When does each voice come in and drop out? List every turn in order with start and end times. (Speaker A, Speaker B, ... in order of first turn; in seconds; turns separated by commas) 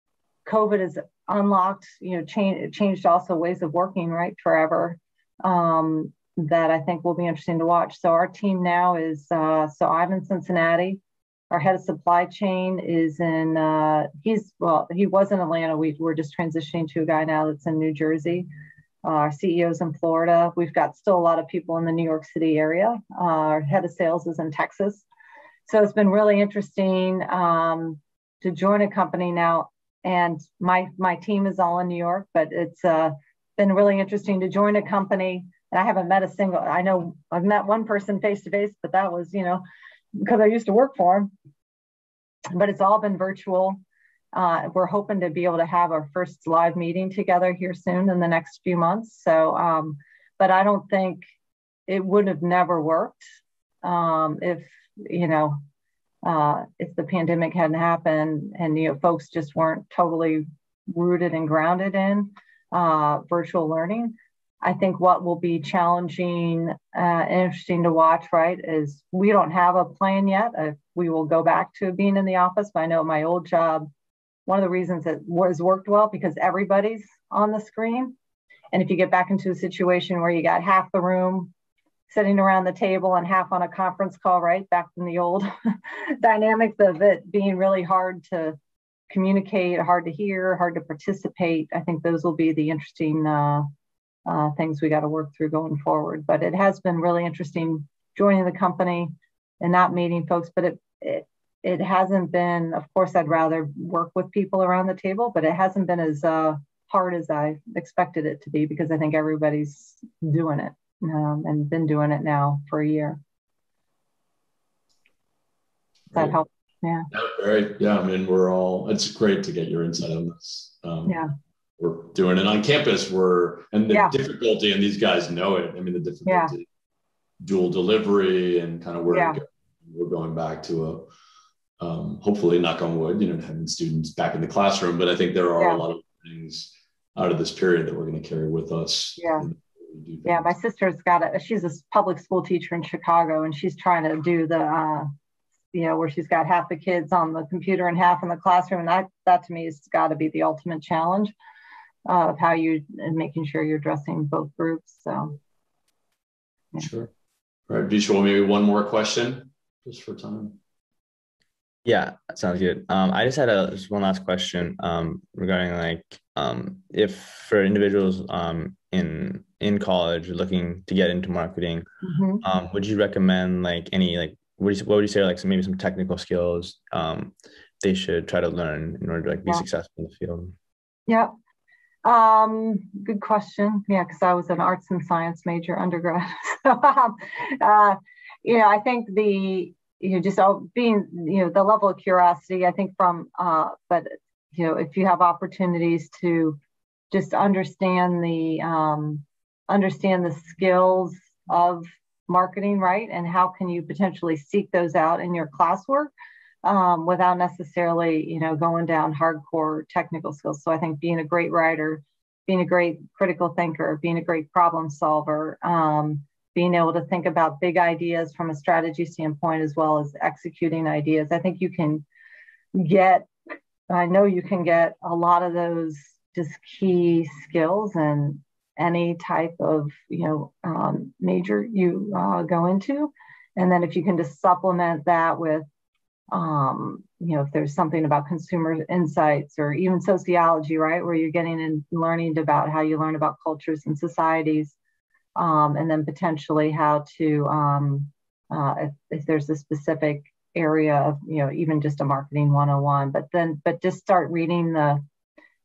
Speaker A: 0.5-18.5, Speaker A: 19.0-25.1, Speaker A: 25.7-39.6, Speaker A: 40.2-41.3, Speaker A: 42.5-43.8, Speaker A: 44.3-51.2, Speaker A: 51.9-53.2, Speaker A: 53.8-55.6, Speaker A: 56.2-73.9, Speaker A: 74.5-78.2, Speaker A: 78.7-81.5, Speaker A: 82.1-88.6, Speaker A: 89.1-93.7, Speaker A: 94.3-113.2, Speaker B: 116.1-116.4, Speaker A: 116.1-117.1, Speaker B: 117.1-121.2, Speaker B: 121.8-126.7, Speaker A: 126.3-126.5, Speaker B: 127.4-131.1, Speaker A: 129.1-129.4, Speaker B: 131.8-140.5, Speaker A: 135.6-135.8, Speaker A: 139.2-139.5, Speaker A: 140.3-145.1, Speaker A: 145.7-151.3, Speaker A: 152.1-155.4, Speaker B: 156.8-157.1, Speaker B: 157.7-160.6, Speaker C: 161.8-171.8, Speaker A: 172.0-172.4, Speaker C: 172.4-180.5, Speaker A: 182.1-196.6, Speaker A: 197.1-206.1, Speaker A: 206.6-222.0, Speaker A: 222.7-223.3, Speaker A: 223.9-235.7, Speaker A: 236.3-244.8, Speaker A: 245.4-255.0